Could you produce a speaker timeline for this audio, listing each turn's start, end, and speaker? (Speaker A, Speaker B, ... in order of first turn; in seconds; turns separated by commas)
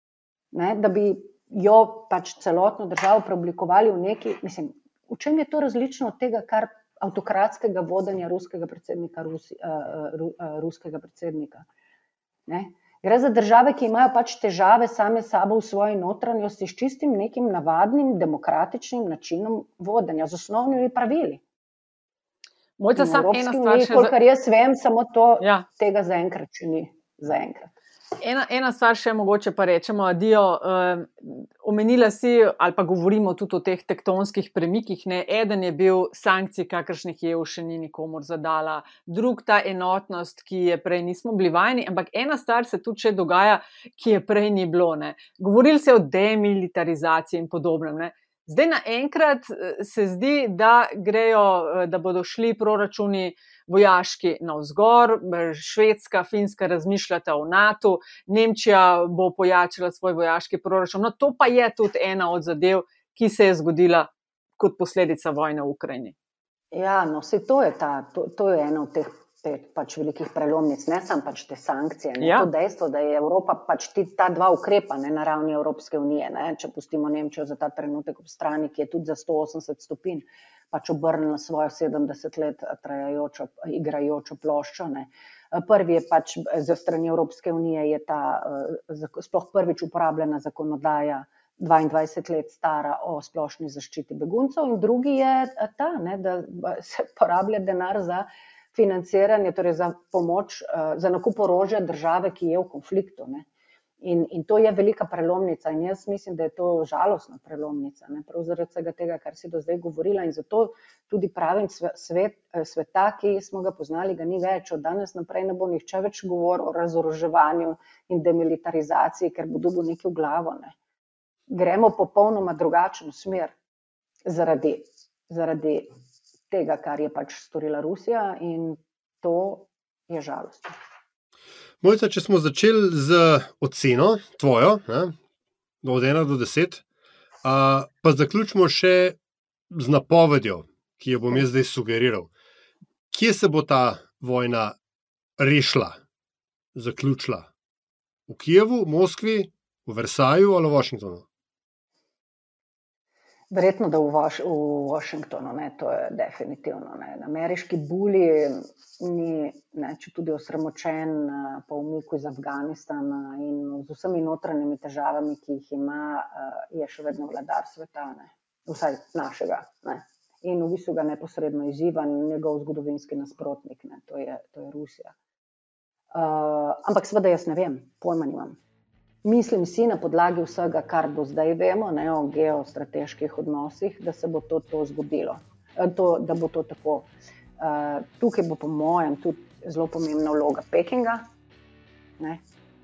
Speaker A: 0.5-11.6, Speaker A: 12.5-21.4, Speaker B: 22.8-24.1, Speaker A: 22.9-27.7, Speaker B: 28.2-66.1, Speaker A: 66.7-103.4, Speaker B: 72.2-72.5, Speaker A: 104.0-120.7, Speaker A: 121.5-123.5, Speaker A: 124.2-125.9, Speaker A: 126.5-130.8, Speaker C: 131.8-135.2, Speaker C: 135.8-136.8, Speaker C: 137.4-139.2, Speaker C: 139.7-142.3, Speaker C: 143.1-144.8, Speaker C: 145.4-146.0, Speaker C: 146.7-147.5, Speaker C: 148.3-151.2, Speaker A: 153.5-175.1, Speaker A: 176.1-178.6, Speaker A: 179.2-191.2